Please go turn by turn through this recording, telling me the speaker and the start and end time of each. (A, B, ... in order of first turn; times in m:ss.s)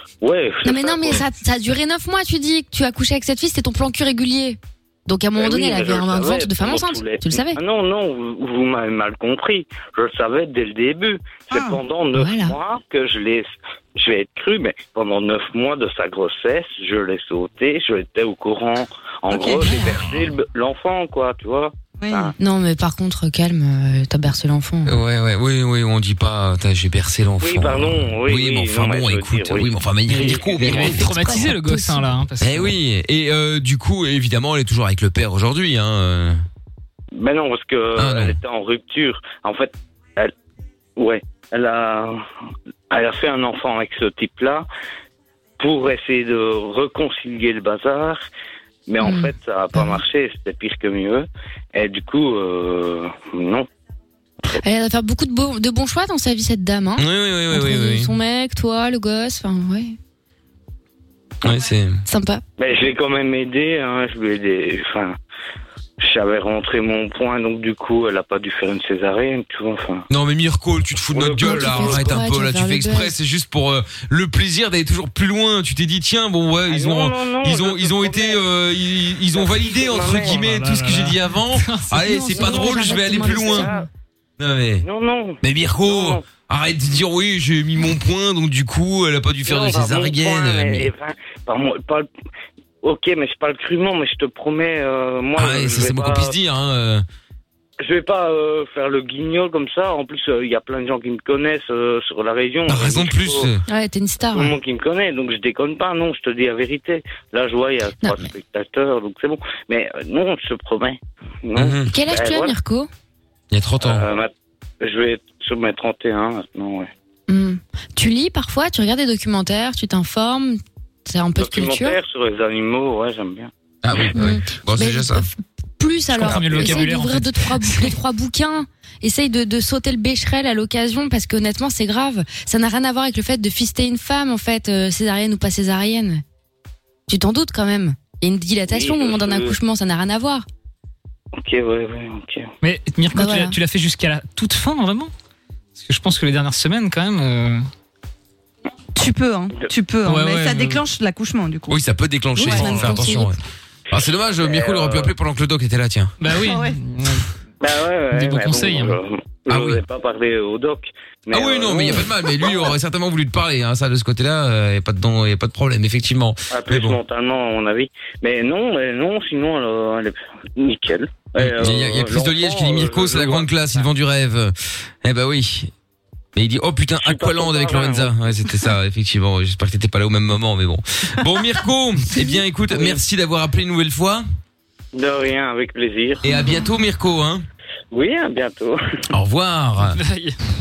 0:00.2-0:01.2 A
0:00.6-0:07.6 B
0:05.4-0:22.3 A
0:11.5-0:11.8 C
0:12.1-0:12.6 B
0:19.3-0:20.0 C
0:22.0-0:22.3 C
0:22.4-0:24.9 B
0:24.8-0:31.4 D
0:27.4-0:30.7 A
0:30.1-0:32.7 E
0:30.7-0:32.1 B
0:32.4-0:36.4 D
0:37.2-0:40.3 A
0:38.0-0:38.4 D
0:41.0-0:42.2 A
0:42.9-0:44.6 A
0:45.6-0:48.2 A
0:48.9-0:53.7 A
0:49.0-0:50.0 B
0:54.6-1:00.0 B
0:57.0-0:58.1 D
1:01.4-1:02.0 D
1:02.0-1:02.4 B
1:02.6-1:05.1 A
1:06.0-1:10.1 A
1:10.1-1:23.7 D
1:11.1-1:12.1 A
1:11.4-1:13.1 B
1:16.7-1:18.4 A
1:19.3-1:20.5 A
1:20.1-1:21.9 E
1:22.0-1:23.9 B
1:22.4-1:23.9 A
1:24.4-1:24.8 D
1:24.8-1:26.2 A
1:25.4-1:30.9 D
1:29.4-1:32.1 A
1:32.8-1:36.3 A
1:35.4-1:37.0 D
1:37.8-1:43.5 A
1:42.7-1:43.6 D
1:43.7-1:44.5 B
1:44.3-1:52.5 A
1:48.0-1:48.3 B
1:51.6-1:51.9 D
1:51.9-1:52.9 B
1:53.5-1:54.0 D
1:53.8-1:54.3 A
1:54.8-1:56.9 A
1:57.3-2:02.0 B
2:01.4-2:03.5 A
2:03.8-2:05.2 D
2:04.1-2:16.2 B
2:06.1-2:08.0 E
2:06.4-2:06.7 A
2:17.1-2:20.4 B
2:18.7-2:19.5 A
2:21.3-2:22.5 A
2:22.6-2:25.1 E
2:23.1-2:23.6 B
2:25.8-2:27.6 E
2:29.0-2:31.8 C
2:30.0-2:30.8 E
2:31.7-2:33.4 D
2:32.4-2:33.3 B
2:32.4-2:33.1 C
2:33.9-2:36.1 D
2:34.4-2:35.1 A
2:36.2-2:37.2 E
2:36.4-2:36.8 C
2:37.6-2:42.7 A
2:38.1-2:39.0 E
2:39.5-2:39.8 D
2:41.3-2:47.0 D
2:46.5-2:53.5 A
2:51.4-2:55.7 D
2:56.3-3:04.2 D
2:57.0-2:58.1 A
3:02.7-3:03.0 A
3:04.9-3:06.2 A
3:06.2-3:07.4 D
3:07.9-3:09.0 A
3:09.1-3:10.0 D
3:09.9-3:10.4 E